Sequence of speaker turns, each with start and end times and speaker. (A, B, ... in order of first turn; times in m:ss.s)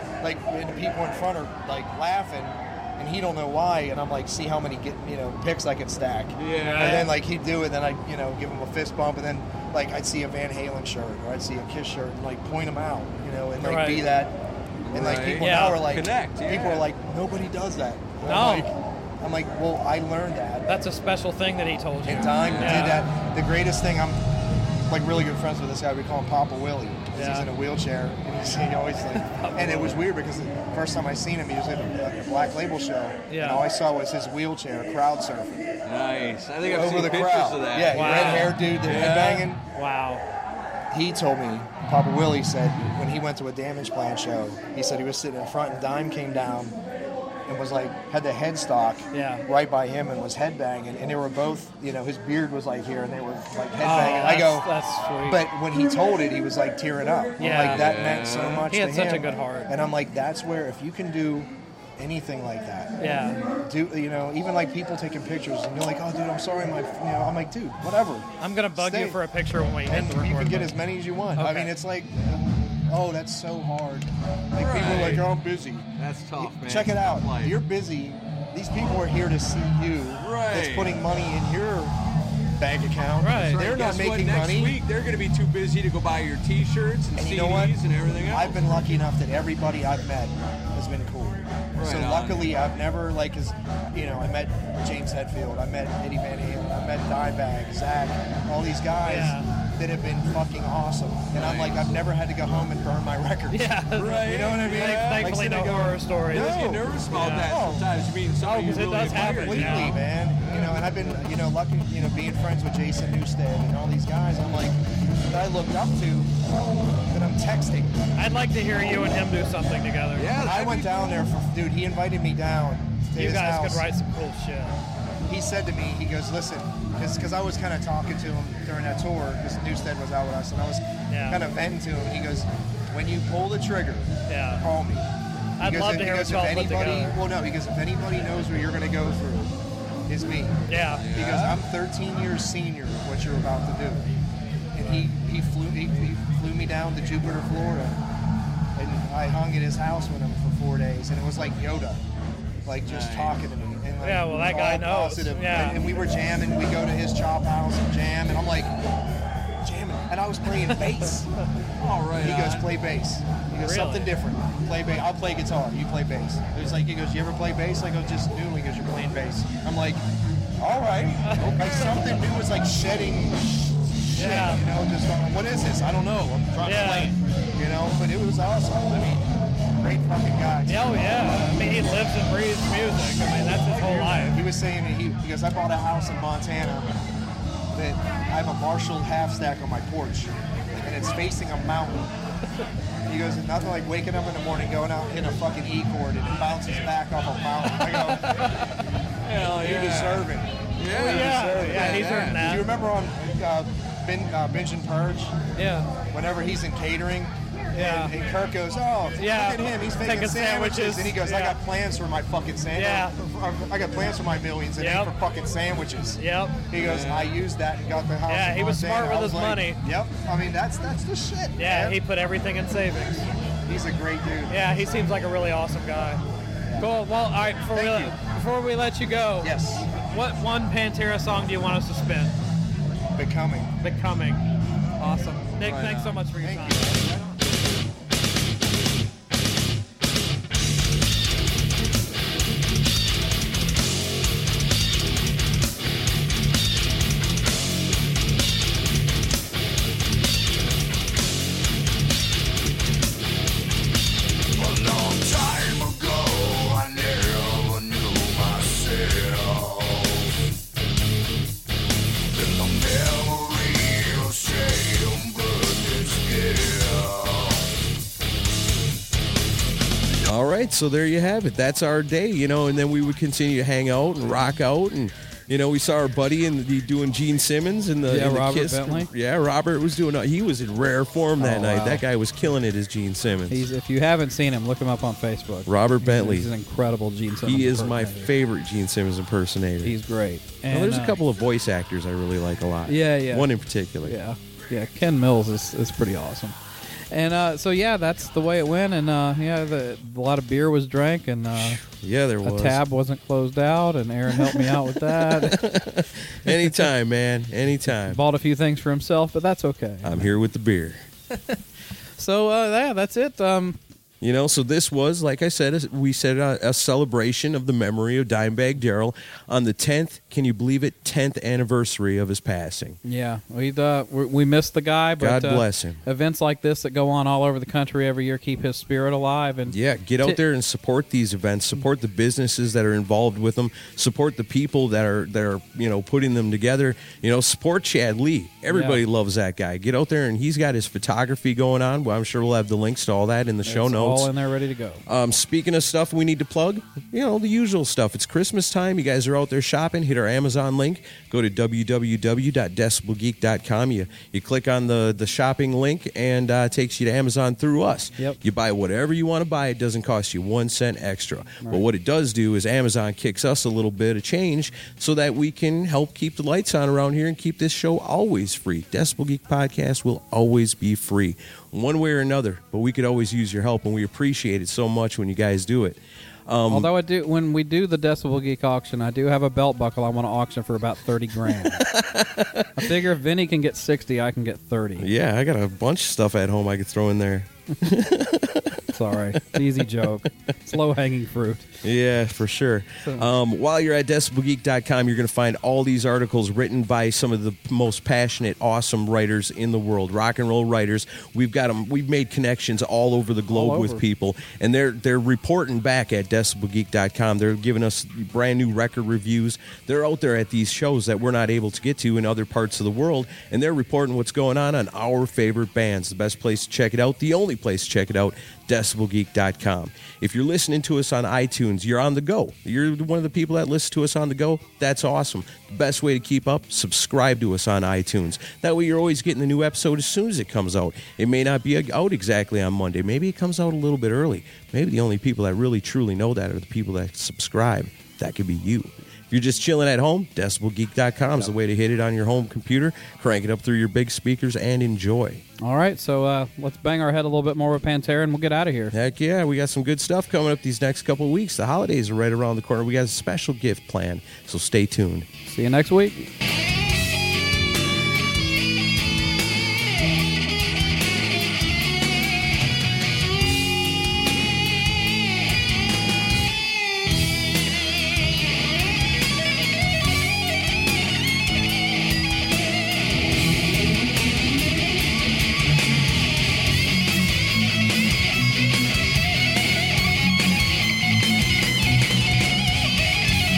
0:00.2-0:14.3 A
0:06.3-0:07.0 B
0:06.7-0:07.1 C
0:13.6-0:14.1 C
0:14.8-0:16.9 B
0:14.9-0:20.7 A
0:15.2-0:15.9 C
0:18.2-0:18.7 C
0:20.7-0:23.1 C
0:22.0-0:24.2 A
0:22.2-0:23.0 B
0:24.9-0:35.6 A
0:27.1-0:27.5 C
0:29.1-0:30.0 C
0:33.3-0:33.6 C
0:35.8-0:39.4 B
0:36.7-0:39.6 A
0:37.9-0:40.2 C
0:40.9-0:46.8 A
0:47.5-0:54.7 A
0:49.1-0:49.4 C
0:53.8-0:55.4 C
0:55.2-1:09.2 A
0:57.4-0:57.9 C
0:57.4-0:58.7 B
0:58.7-0:59.7 C
1:03.0-1:03.4 C
1:08.4-1:10.8 C
1:09.8-1:22.0 A
1:11.4-1:11.7 C
1:14.6-1:15.3 B
1:16.0-1:17.6 B
1:20.2-1:21.0 B
1:22.6-1:24.8 A
1:23.2-1:23.7 C
1:23.5-1:28.6 B
1:27.2-1:47.9 A
1:31.8-1:32.5 B
1:39.0-1:39.5 C
1:41.3-1:42.0 B
1:43.5-1:47.6 C
1:43.9-1:45.5 B
1:46.3-1:51.0 B
1:48.4-1:50.0 C
1:49.2-1:56.4 A
1:57.1-1:58.0 A
1:58.2-2:00.4 C
2:00.1-2:01.2 B
2:00.4-2:03.8 A
2:03.1-2:04.8 C
2:05.3-2:19.5 A
2:11.1-2:11.4 C
2:14.3-2:14.6 C
2:15.6-2:17.2 C
2:20.1-2:24.1 A
2:20.7-2:21.1 C
2:20.9-2:21.6 B
2:24.7-2:28.0 A
2:24.8-2:25.1 C
2:28.8-2:32.0 A
2:32.6-2:38.7 A
2:32.8-2:33.4 B
2:34.0-2:35.8 C
2:39.6-2:41.3 A
2:40.6-2:41.1 C
2:41.8-2:42.7 B
2:42.1-2:50.0 A
2:43.6-2:44.1 C
2:50.6-2:59.2 A
2:51.2-2:52.0 C
2:51.4-2:52.2 B
2:54.1-2:54.6 C
2:56.6-2:57.1 C
2:59.8-3:01.6 A
3:00.6-3:04.4 C
3:03.4-3:07.0 A
3:07.7-3:12.1 A
3:13.1-3:18.4 A
3:17.9-3:18.6 C
3:19.2-3:22.5 B
3:19.4-3:25.4 A
3:20.9-3:22.7 C
3:25.6-3:25.9 C
3:26.1-3:42.0 A
3:27.7-3:28.1 C
3:29.2-3:31.6 C
3:32.8-3:33.1 C
3:34.8-3:35.1 C
3:36.2-3:36.7 C
3:36.7-3:37.4 B
3:38.3-3:39.8 C
3:41.6-3:43.2 C
3:43.6-3:44.9 A
3:44.5-3:46.2 C
3:46.6-3:46.9 A
3:46.8-3:52.3 C
3:47.7-3:48.2 A
3:49.4-3:49.9 A
3:53.1-3:53.7 A
3:53.8-3:54.4 C
3:55.0-3:57.0 C
3:55.6-3:56.2 B
3:56.3-3:57.4 A
4:14.5-4:20.3 D
4:22.3-4:27.7 D
4:30.2-4:43.7 E
4:38.1-4:39.1 F
4:41.4-4:42.0 F
4:43.5-4:48.3 F
4:45.7-4:46.5 E
4:47.4-4:49.9 E
4:49.8-4:51.2 F
4:50.7-4:54.2 E
4:52.8-4:53.5 F
4:54.0-4:56.6 F
4:57.1-5:01.8 F
5:01.5-5:02.8 E
5:02.4-5:05.8 F
5:04.3-5:08.2 E
5:06.5-5:06.8 F
5:08.1-5:10.3 F
5:10.0-5:11.0 E
5:12.2-5:13.8 F
5:14.2-5:23.0 E
5:23.0-5:30.4 F
5:25.2-5:26.0 E
5:29.7-5:44.3 E
5:38.7-5:39.0 F
5:43.6-5:45.0 F
5:45.0-6:16.9 E
6:01.6-6:01.9 F
6:16.7-6:21.8 F
6:21.5-6:22.9 E
6:22.8-6:25.1 F
6:25.0-6:28.9 E
6:28.9-6:31.7 F
6:29.6-6:30.1 E
6:31.8-7:25.4 E
6:33.0-6:33.3 F
6:43.5-6:44.0 F
7:25.6-7:28.9 F
7:28.9-7:35.3 E
7:35.4-7:36.3 F